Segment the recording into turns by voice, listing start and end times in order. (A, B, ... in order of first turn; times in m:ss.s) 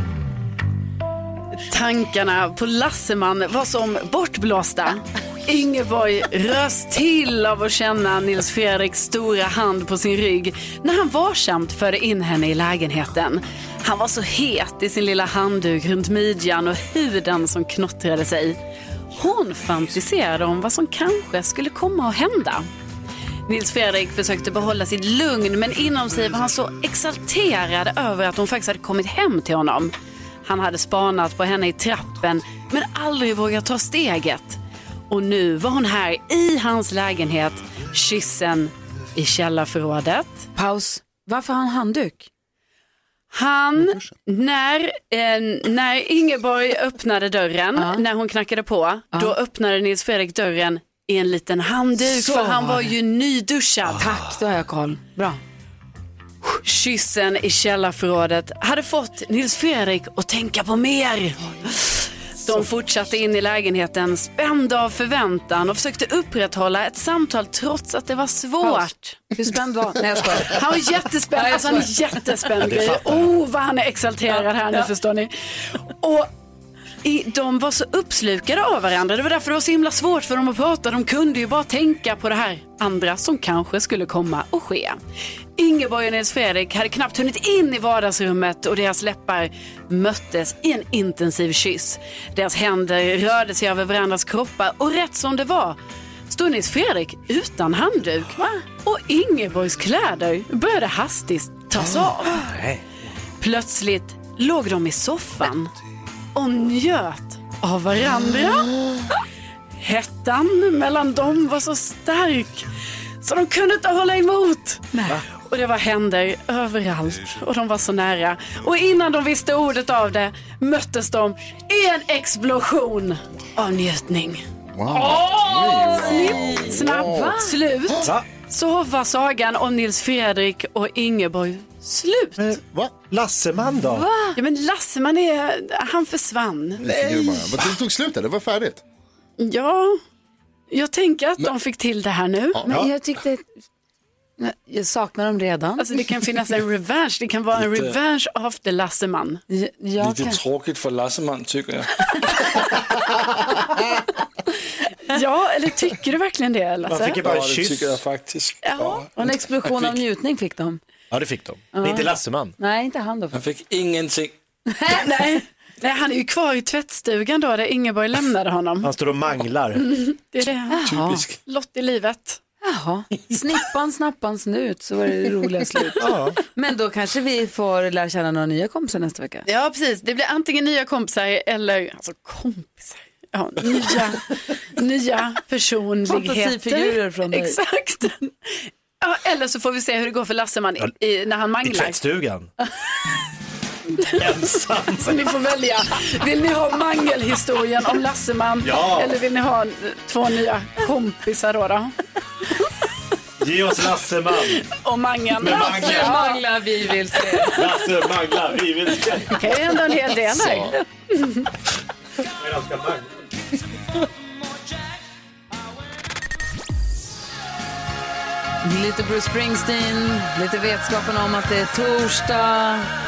0:01.7-0:18.6 A
0:19.1-0:22.7 A
0:23.5-0:29.9 A
0:30.4-0:40.5 A
0:40.6-0:42.3 B
0:43.3-0:54.1 A
0:47.8-0:48.0 B
0:52.0-0:52.9 B
0:54.0-0:55.4 B
0:56.6-1:09.3 A
1:01.4-1:01.8 B
1:08.6-1:10.7 B
1:10.4-1:16.3 A
1:11.3-1:11.9 B
1:12.6-1:13.3 C
1:14.3-1:14.9 B
1:17.0-1:25.0 A
1:25.6-1:35.8 A
1:36.3-1:42.4 A
1:42.4-1:42.8 C
1:43.4-1:45.7 A
1:46.4-1:48.8 A
1:49.8-1:52.7 A
1:53.2-1:54.9 A
1:54.9-1:55.2 B
1:55.5-2:04.4 A
2:04.7-2:07.4 D
2:04.9-2:07.6 B
2:05.9-2:12.4 A
2:12.4-2:14.1 C
2:13.9-2:14.4 B
2:14.4-2:16.8 A
2:16.8-2:18.8 D
2:17.0-2:17.4 B
2:19.4-2:20.0 A
2:20.7-2:22.6 A
2:22.7-2:23.5 B
2:24.4-2:26.0 B
2:25.8-2:29.4 A
2:27.6-2:28.0 E
2:29.5-2:30.4 B
2:30.0-2:31.9 E
2:35.1-2:37.2 A
2:36.9-2:38.0 C
2:37.2-2:39.1 E
2:38.6-2:39.0 A
2:39.2-2:40.8 B
2:41.1-2:42.5 C
2:41.7-2:43.4 B
2:43.3-2:44.3 E
2:44.7-2:45.4 B
2:44.9-2:48.9 A
2:48.8-2:49.9 C
2:49.8-2:50.8 A
2:50.7-2:51.2 B
2:50.9-2:51.4 E
2:51.5-2:52.4 A
2:52.6-2:59.5 B
2:56.0-2:56.4 C
2:59.5-3:08.3 A
3:06.1-3:07.6 B
3:09.0-3:12.0 A
3:11.6-3:12.5 C
3:14.0-3:15.3 C
3:15.0-3:22.0 A
3:18.6-3:19.1 C
3:23.4-3:24.7 C
3:24.6-3:26.4 A
3:25.4-3:26.2 C
3:25.6-3:27.6 B
3:27.4-3:29.5 C
3:29.3-3:31.5 A
3:32.3-3:33.1 C
3:38.6-3:42.9 B